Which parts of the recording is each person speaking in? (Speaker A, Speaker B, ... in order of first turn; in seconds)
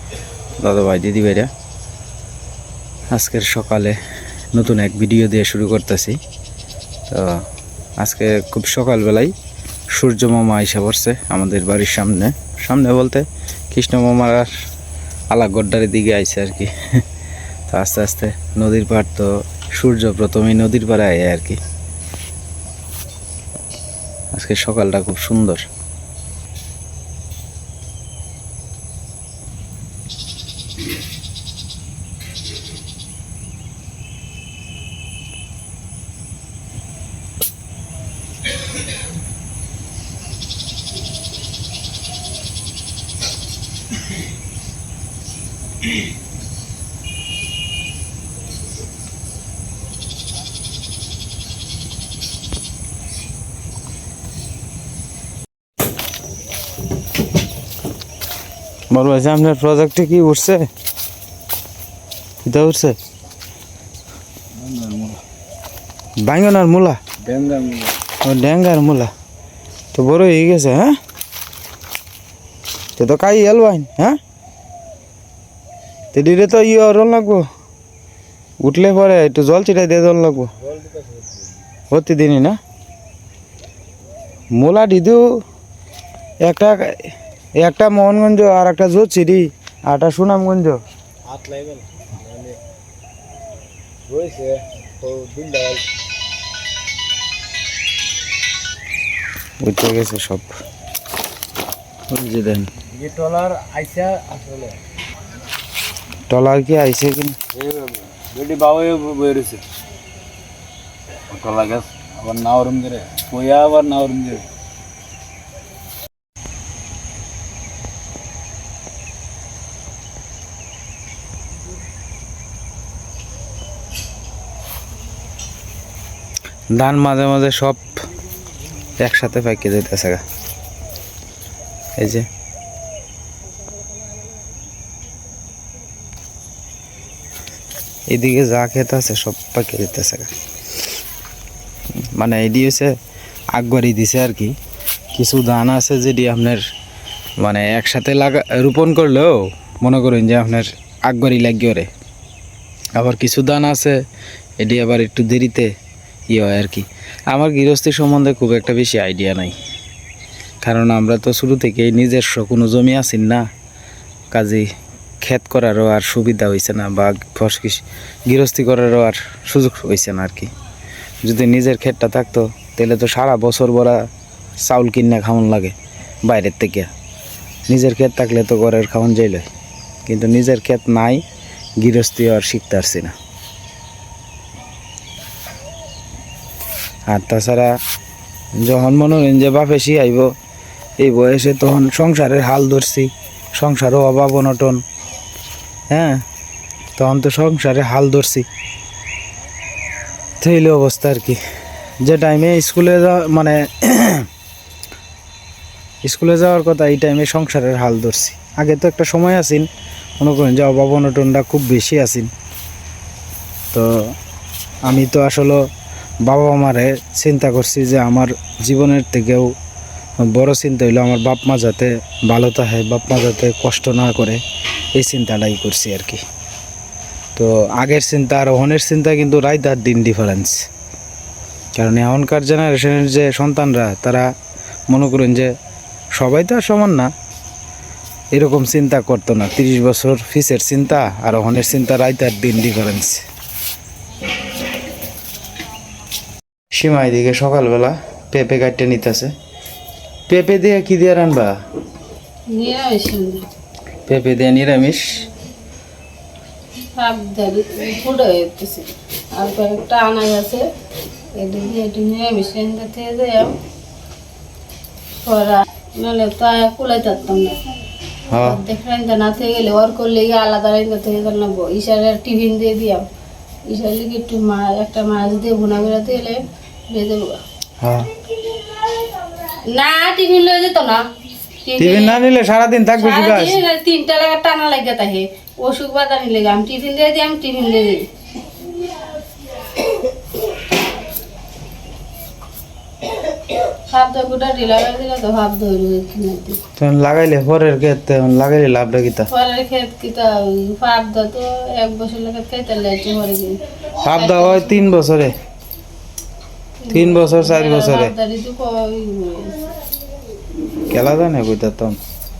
Speaker A: 0.6-1.5, 3.1-4.0, 4.5-6.2, 7.1-7.4, 8.0-9.3, 9.9-14.5, 15.3-16.7, 17.7-21.6, 24.3-25.7, 58.9-60.6, 62.4-63.0, 66.2-67.0, 68.2-69.1, 69.9-71.0, 73.0-74.2, 76.1-77.4, 78.6-80.5, 81.9-82.6, 84.6-85.2, 86.4-86.9, 87.6-90.8, 99.6-100.5, 102.1-102.7, 106.3-107.3, 126.7-127.8, 129.0-130.2, 132.0-132.2, 138.1-140.3, 142.1-142.9, 143.5-144.5, 145.1-146.6, 147.4-151.9, 153.0-154.0, 154.6-155.7, 156.3-159.5, 160.6-163.4, 164.3-164.7, 165.2-170.5, 171.2-174.0, 174.6-176.9, 177.7-179.5, 180.1-181.2, 181.8-183.1, 187.1-187.7, 188.6-190.3, 191.0-194.8, 195.9-196.2, 197.0-198.4, 200.4-201.4, 202.0-204.2, 206.0-209.7, 210.2-212.3, 213.7-214.1, 214.8-215.7, 216.2-219.5, 220.2-224.4, 224.9-226.2, 227.3-230.6, 231.8-234.3, 234.9-235.5, 236.2-237.1, 238.3-243.2, 246.7-249.3, 250.3-251.5, 254.1-255.2, 268.3-268.6, 277.8-278.1, 281.8-283.6, 296.8-299.3, 304.0-305.3, 306.9-308.1, 310.8-312.0
Speaker B: 64.6-65.2, 67.2-67.9, 80.7-81.4, 91.3-92.6, 94.1-95.8, 102.9-104.8, 107.5-109.6, 111.3-114.5
Speaker C: 252.5-253.4, 256.9-260.6, 261.4-263.5, 265.2-267.6, 268.3-273.1, 273.7-277.4, 279.4-281.0, 281.6-282.2, 282.9-288.1, 293.9-296.6, 299.3-304.9, 306.8-309.7